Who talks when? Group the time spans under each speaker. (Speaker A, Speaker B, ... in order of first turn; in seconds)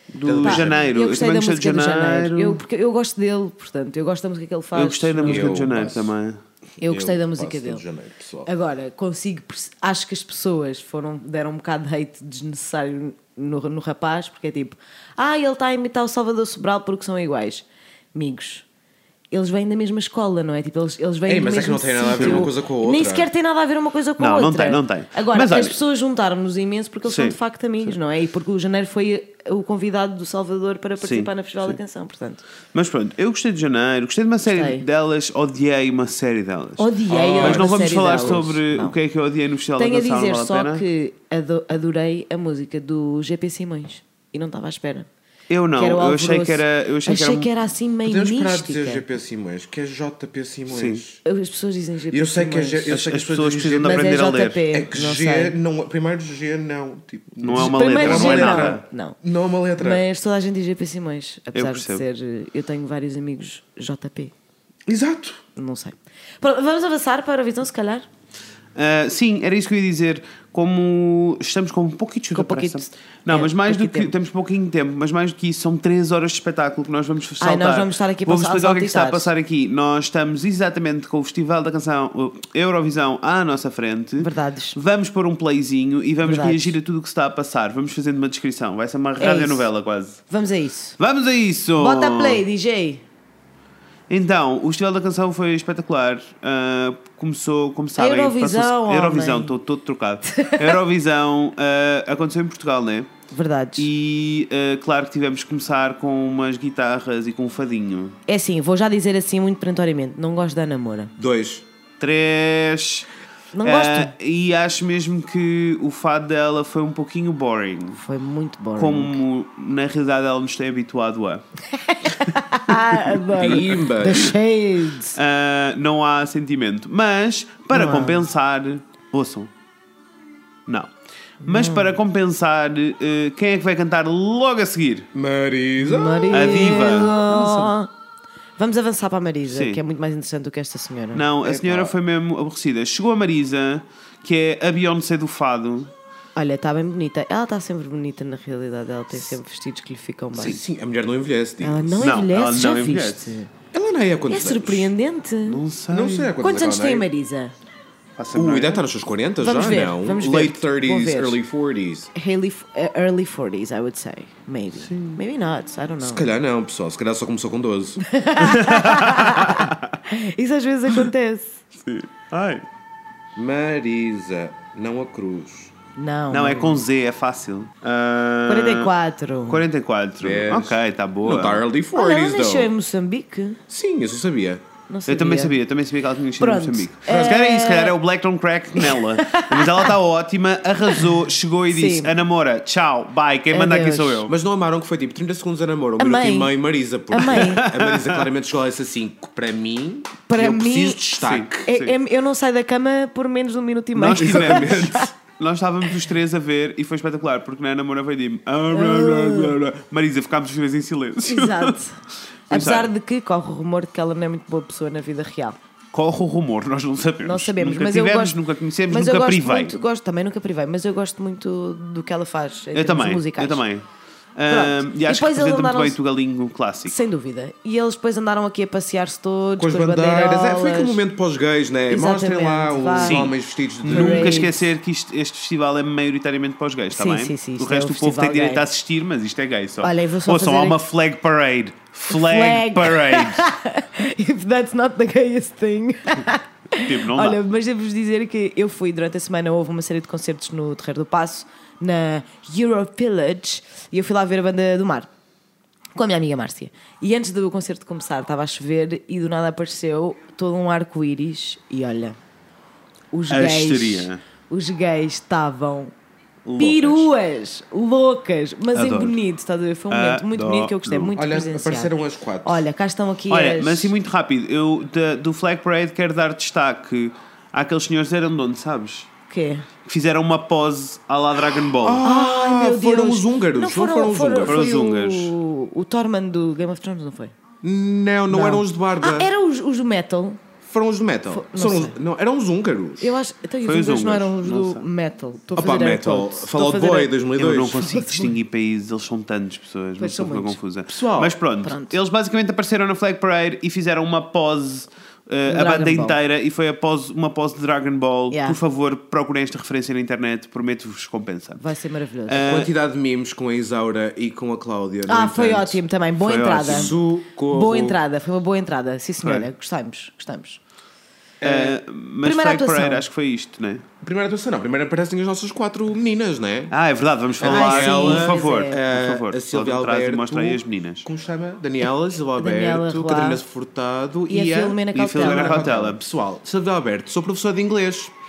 Speaker A: 0.1-2.6, 4.8-6.4, 22.2-22.5, 24.2-25.8, 27.1-28.0, 31.0-31.8, 32.7-40.8, 45.5-47.5, 50.7-51.0, 52.9-54.6, 57.4-58.8, 61.5-62.0, 68.8-90.2, 91.0-92.4, 94.1-103.1, 103.8-108.2, 112.0-113.1, 113.6-118.0, 118.8-121.4, 122.7-123.0, 125.2-129.5, 131.4-135.1, 136.3-137.7, 139.5-139.8, 141.1-145.9, 152.0-153.4, 155.5-156.3, 158.2-158.8, 164.8-165.2, 168.4-169.9, 171.9-172.6, 176.3-178.9, 179.5-181.6, 185.1-194.3, 197.3-198.3, 201.2-201.9, 203.9-211.8, 212.5-212.9, 215.9-219.7, 222.7-223.8, 224.4-226.9, 233.0-243.4, 246.8-247.4, 263.3-264.2, 266.4-267.1, 268.7-269.2, 269.9-271.1, 273.3-279.1, 279.9-282.0, 284.5-285.3, 293.6-294.8, 297.4-311.6, 312.3-312.7, 316.2-316.9, 321.4-323.9, 326.7-331.1, 334.9-336.0
Speaker B: 0.2-0.9, 5.3-6.1, 6.8-8.5, 21.3-23.3, 37.1-38.5, 48.0-51.2, 52.1-54.0, 54.7-60.0, 64.9-65.4, 111.2-111.7, 123.3-124.4, 135.1-137.4, 141.4-141.9, 150.3-152.1, 153.7-154.9, 155.9-157.1, 158.3-162.1, 166.0-168.0, 173.3-175.7, 180.2-182.7, 183.7-184.6, 194.3-201.7, 204.2-205.0, 229.6-234.5, 271.2-272.6, 281.8-284.7, 287.6-289.3, 290.6-293.2, 295.6-297.8, 300.9-301.4, 312.3-315.8, 316.6-318.0, 321.4-321.8, 324.0-326.7, 327.4-338.1
Speaker C: 0.4-5.7, 6.8-7.8, 8.5-18.6, 19.3-32.4, 34.5-34.9, 36.8-39.0, 39.8-45.1, 45.8-49.0, 51.2-53.0, 53.8-55.6, 57.5-59.2, 59.8-64.3, 65.6-68.1, 72.3-74.1, 77.4-79.3, 84.2-84.8, 86.2-86.8, 89.2-89.7, 90.3-91.0, 91.8-93.0, 98.0-99.5, 100.3-100.8, 103.3-103.9, 108.3-111.1, 113.5-114.1, 118.0-119.2, 121.7-125.2, 127.7-128.3, 131.4-131.9, 135.8-137.9, 138.6-141.3, 146.4-150.6, 151.6-153.5, 154.3-155.6, 156.4-157.5, 159.4-161.4, 162.2-166.3, 168.0-171.6, 176.0-176.8, 178.5-179.7, 181.9-183.6, 184.9-185.6, 186.4-188.0, 188.8-189.9, 190.9-192.2, 193.5-194.3, 196.0-196.6, 197.1-197.7, 200.3-201.0, 201.7-205.1, 208.7-209.6, 211.2-215.6, 217.2-218.4, 218.9-223.6, 224.5-226.0, 226.9-231.0, 231.9-233.3, 233.9-234.7, 236.9-238.6, 239.8-240.8, 242.1-255.1, 255.9-262.2, 263.1-265.9, 266.6-271.9, 272.4-273.9, 279.3-279.7, 282.0-287.3, 288.3-290.4, 291.3-292.0, 293.0-298.4, 300.0-300.6, 301.6-302.0, 305.5-306.2, 308.3-308.6, 311.6-312.5, 315.1-316.9, 317.5-320.6, 322.2-323.0, 327.4-328.8, 332.4-333.4, 334.3-335.7